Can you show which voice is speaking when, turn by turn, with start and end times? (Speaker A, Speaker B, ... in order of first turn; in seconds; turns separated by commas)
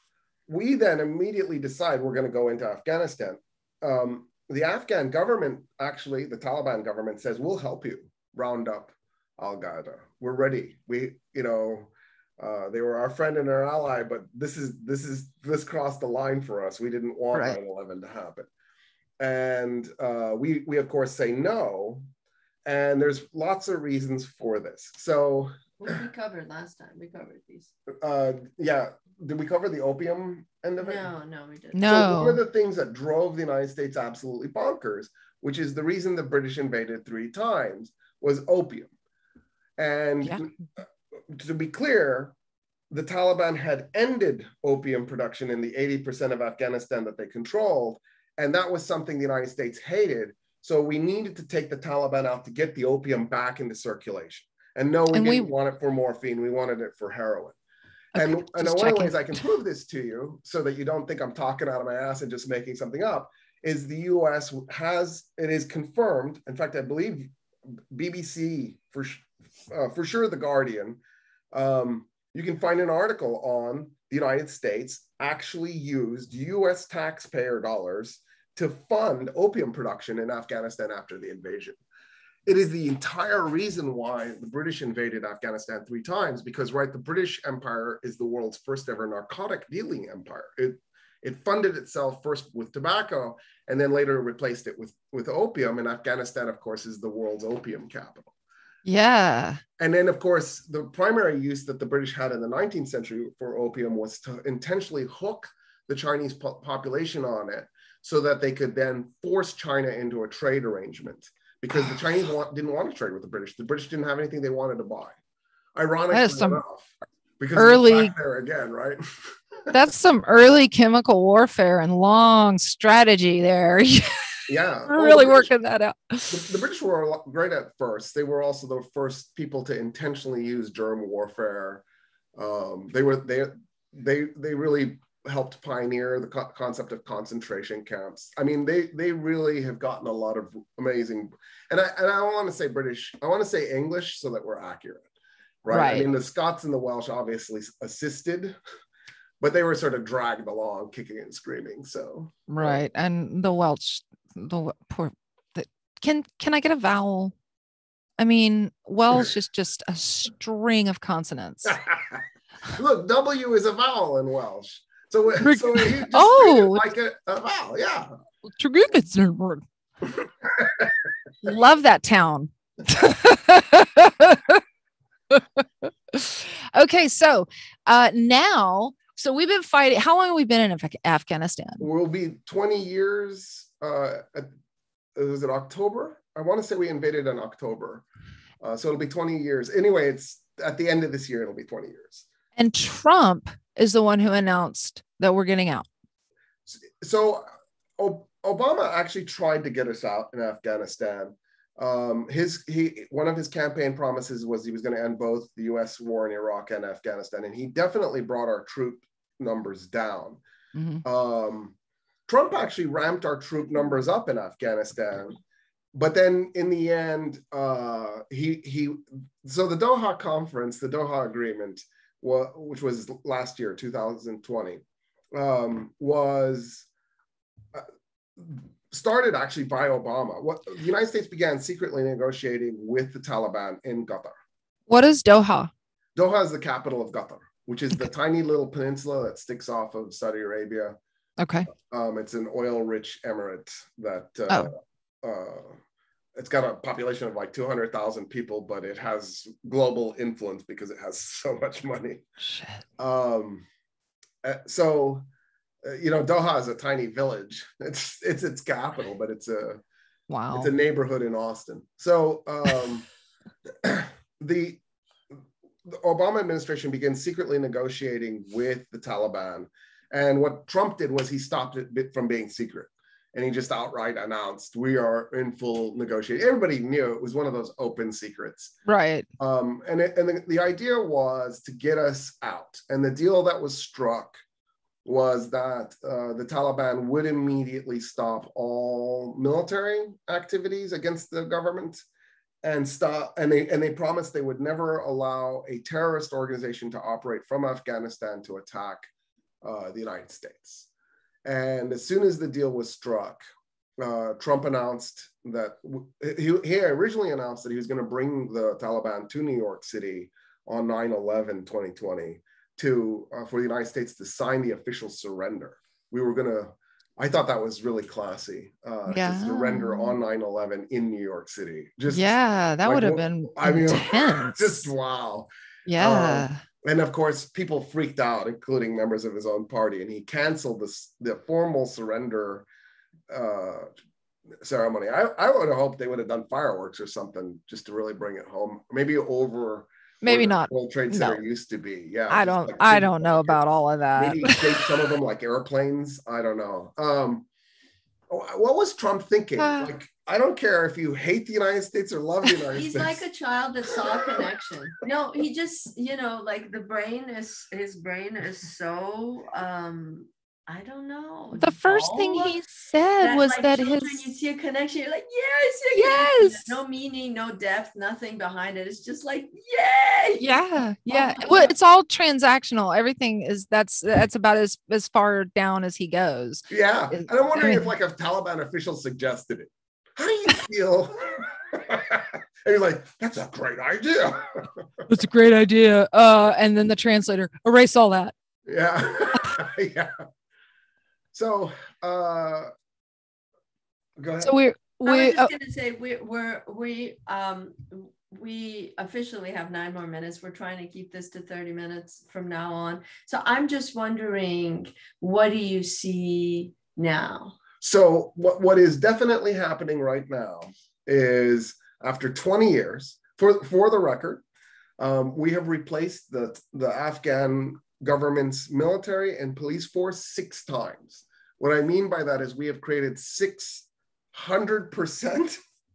Speaker A: 0.5-18.5, Speaker B: 17.3-17.6, Speaker A: 19.2-22.1, Speaker A: 22.6-25.9, Speaker C: 25.8-27.7, Speaker A: 27.9-31.1, Speaker C: 30.8-32.1, Speaker B: 31.7-32.4, Speaker A: 31.9-38.9, Speaker A: 39.8-42.4, Speaker A: 42.9-57.6, Speaker B: 55.1-55.5, Speaker B: 58.1-59.2, Speaker A: 58.2-67.3, Speaker A: 67.9-71.0, Speaker A: 71.5-81.8, Speaker A: 82.5-98.3, Speaker B: 98.8-99.6, Speaker A: 99.8-115.2, Speaker A: 115.8-119.0, Speaker B: 116.1-116.6, Speaker B: 117.6-118.1, Speaker B: 119.7-126.5, Speaker A: 124.5-125.5, Speaker A: 126.3-131.8, Speaker A: 132.4-145.1, Speaker A: 145.6-148.6, Speaker B: 145.7-146.1, Speaker A: 149.4-152.8, Speaker B: 152.5-157.3, Speaker B: 158.2-161.8, Speaker A: 161.7-168.1, Speaker B: 165.4-166.8, Speaker B: 168.5-169.6, Speaker A: 170.5-170.9, Speaker B: 171.4-174.6, Speaker B: 175.3-181.9, Speaker A: 181.8-184.5, Speaker A: 185.2-188.0, Speaker A: 188.6-192.2, Speaker B: 192.6-195.9, Speaker A: 196.7-197.5, Speaker A: 198.0-210.4, Speaker B: 210.7-211.0, Speaker A: 211.0-211.8, Speaker A: 212.3-215.4, Speaker A: 215.9-224.8, Speaker A: 225.3-226.9, Speaker A: 228.4-234.3, Speaker B: 234.9-235.7, Speaker A: 236.2-241.0, Speaker B: 241.4-241.7, Speaker A: 241.7-245.8, Speaker A: 246.3-252.2, Speaker B: 252.5-252.8, Speaker A: 253.0-253.7, Speaker A: 254.4-255.2, Speaker A: 255.8-259.8, Speaker B: 260.3-260.7, Speaker A: 260.5-263.1, Speaker A: 263.8-264.8, Speaker A: 265.9-278.8, Speaker B: 278.9-279.3, Speaker A: 279.4-284.4, Speaker A: 285.1-292.0, Speaker A: 292.6-299.1, Speaker A: 299.6-300.9, Speaker A: 301.4-303.4, Speaker A: 304.0-332.7, Speaker B: 319.1-320.2, Speaker B: 322.1-324.9, Speaker B: 325.9-326.6, Speaker A: 333.3-333.9, Speaker A: 334.6-343.6, Speaker B: 340.2-341.4, Speaker B: 342.3-344.9, Speaker A: 344.2-347.5, Speaker A: 348.3-353.2, Speaker B: 349.6-349.9, Speaker C: 352.7-362.6, Speaker A: 353.9-354.4, Speaker B: 361.6-364.2, Speaker C: 363.2-370.6, Speaker B: 365.9-366.8, Speaker B: 370.4-377.9, Speaker C: 371.1-371.7, Speaker A: 376.7-385.1, Speaker B: 385.1-388.3, Speaker A: 388.7-390.2, Speaker A: 391.3-392.7, Speaker A: 394.2-394.6, Speaker B: 394.4-395.5, Speaker C: 395.0-407.6, Speaker A: 407.8-414.4, Speaker A: 415.0-425.6